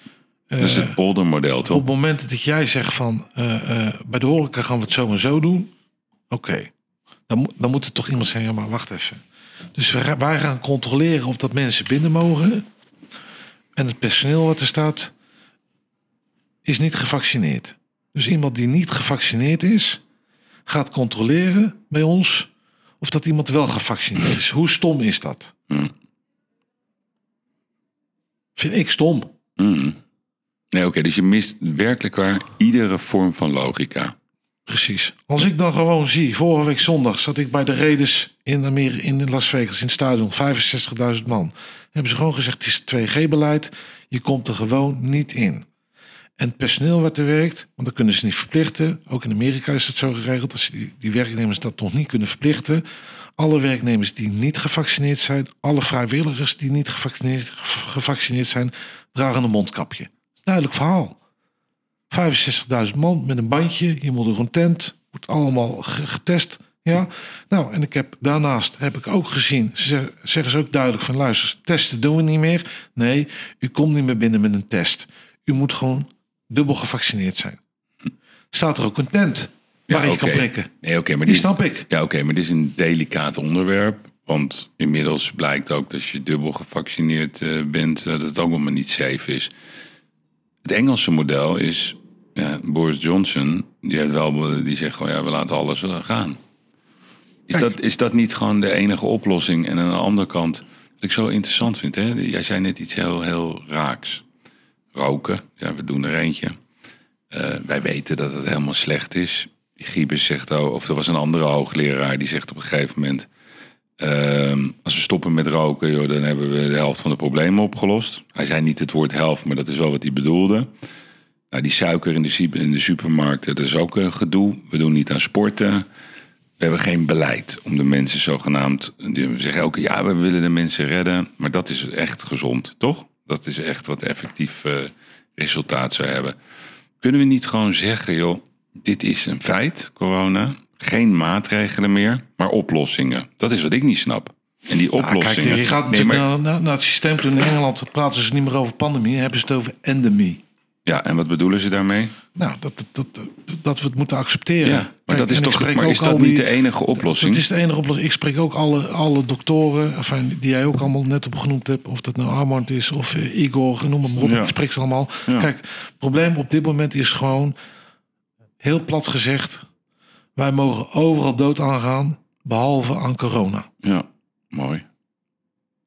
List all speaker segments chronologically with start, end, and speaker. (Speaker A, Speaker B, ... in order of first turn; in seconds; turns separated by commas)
Speaker A: 0.5-1.0, Speaker B: 0.6-1.8, Speaker A: 1.6-5.7, Speaker A: 6.3-6.7, Speaker A: 7.3-9.2, Speaker A: 9.7-12.7, Speaker A: 13.7-15.1, Speaker A: 16.6-20.0, Speaker A: 20.7-22.5, Speaker A: 23.0-25.5, Speaker A: 28.6-29.3, Speaker B: 29.6-30.0, Speaker B: 30.7-34.1, Speaker A: 34.7-45.6, Speaker A: 46.4-52.8, Speaker A: 53.4-61.2, Speaker A: 62.1-77.6, Speaker A: 78.5-80.7, Speaker B: 79.9-89.5, Speaker A: 81.2-81.9, Speaker B: 90.6-96.4, Speaker B: 97.5-104.2, Speaker B: 104.9-106.6, Speaker B: 107.3-113.3, Speaker B: 114.0-120.7, Speaker B: 121.5-125.9, Speaker B: 126.6-136.3, Speaker B: 137.0-146.2, Speaker A: 145.0-150.4, Speaker B: 150.8-152.2, Speaker A: 152.3-156.5, Speaker B: 154.6-157.4, Speaker A: 157.0-167.5, Speaker B: 164.2-164.5, Speaker A: 168.6-169.7, Speaker A: 170.3-173.7, Speaker B: 173.8-174.8